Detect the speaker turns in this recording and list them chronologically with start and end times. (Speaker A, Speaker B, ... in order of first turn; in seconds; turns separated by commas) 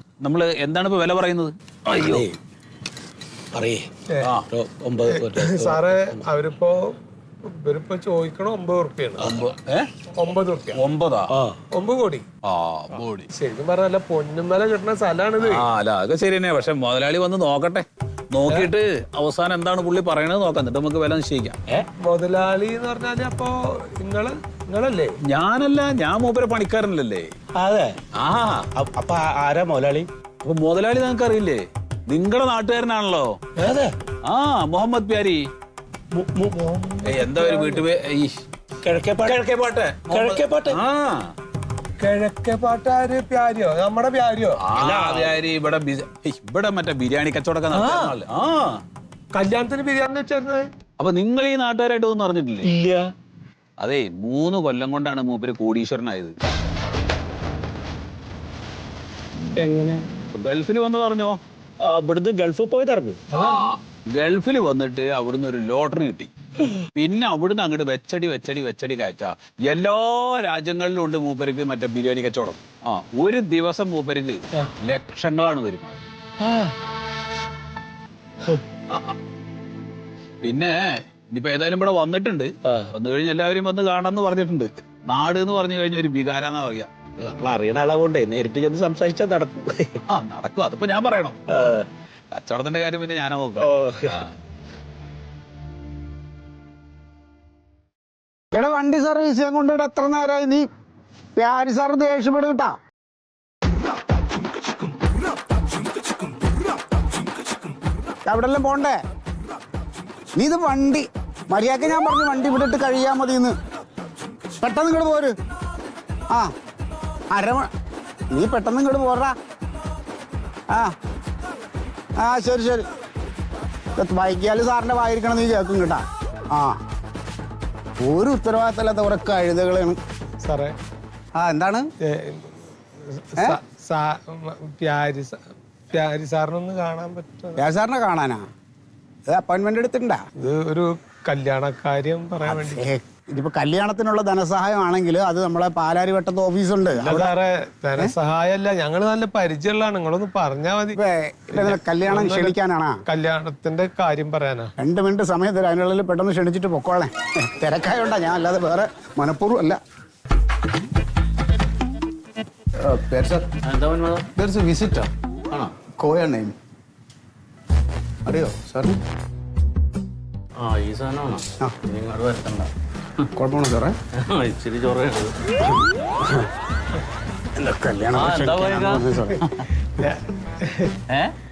Speaker A: 0.2-1.5, Speaker B: 1.9-2.4, Speaker B: 3.5-3.9, Speaker C: 4.1-4.3, Speaker B: 4.5-6.2, Speaker C: 5.0-7.0, Speaker C: 7.5-9.3, Speaker A: 9.2-9.9, Speaker C: 10.1-10.8, Speaker A: 10.7-11.3, Speaker B: 11.3-11.6, Speaker C: 11.7-12.2, Speaker A: 12.4-13.3, Speaker C: 13.3-15.7, Speaker A: 15.4-21.6, Speaker C: 22.0-25.1, Speaker A: 25.3-27.3, Speaker B: 27.6-28.0, Speaker A: 28.1-28.7, Speaker B: 28.7-30.1, Speaker A: 30.4-33.4, Speaker B: 33.6-33.9, Speaker A: 34.2-35.4, Speaker B: 36.1-36.6, Speaker C: 36.5-37.9, Speaker A: 37.0-38.3, Speaker B: 38.8-39.4, Speaker A: 39.2-41.3, Speaker B: 40.1-40.8, Speaker C: 42.0-44.6, Speaker A: 44.6-48.8, Speaker B: 44.8-45.4, Speaker C: 47.7-48.1, Speaker C: 49.3-50.7, Speaker A: 51.0-52.7, Speaker B: 52.6-53.0, Speaker A: 53.8-56.3, Speaker B: 59.6-60.0, Speaker A: 60.3-61.4, Speaker B: 61.8-63.3, Speaker A: 63.3-66.3, Speaker A: 66.9-76.0, Speaker A: 78.9-79.1, Speaker A: 80.4-86.9, Speaker B: 87.2-90.0, Speaker A: 90.1-91.8, Speaker B: 91.5-91.8, Speaker A: 92.3-94.3, Speaker B: 93.6-94.2, Speaker D: 98.5-100.7, Speaker D: 101.3-102.8, Speaker D: 108.2-109.0, Speaker D: 110.3-113.6, Speaker D: 114.6-115.3, Speaker D: 117.3-117.7, Speaker D: 118.3-119.3, Speaker D: 122.2-122.8, Speaker D: 124.0-126.8, Speaker D: 128.0-130.0, Speaker C: 130.4-130.7, Speaker D: 131.3-131.9, Speaker C: 132.0-135.4, Speaker C: 135.9-137.6, Speaker D: 137.6-138.4, Speaker D: 139.2-140.2, Speaker C: 140.3-142.9, Speaker D: 142.4-147.3, Speaker C: 146.9-151.0, Speaker D: 150.9-153.0, Speaker C: 151.5-152.6, Speaker C: 153.1-154.7, Speaker D: 154.8-159.8, Speaker D: 162.8-163.5, Speaker E: 163.6-164.3, Speaker D: 164.4-165.1, Speaker E: 165.5-165.8, Speaker D: 165.9-166.5, Speaker D: 168.2-169.0, Speaker E: 170.6-172.7, Speaker D: 173.3-173.9, Speaker E: 174.2-175.4, Speaker D: 177.5-179.4, Speaker E: 178.1-179.6, Speaker C: 180.0-180.9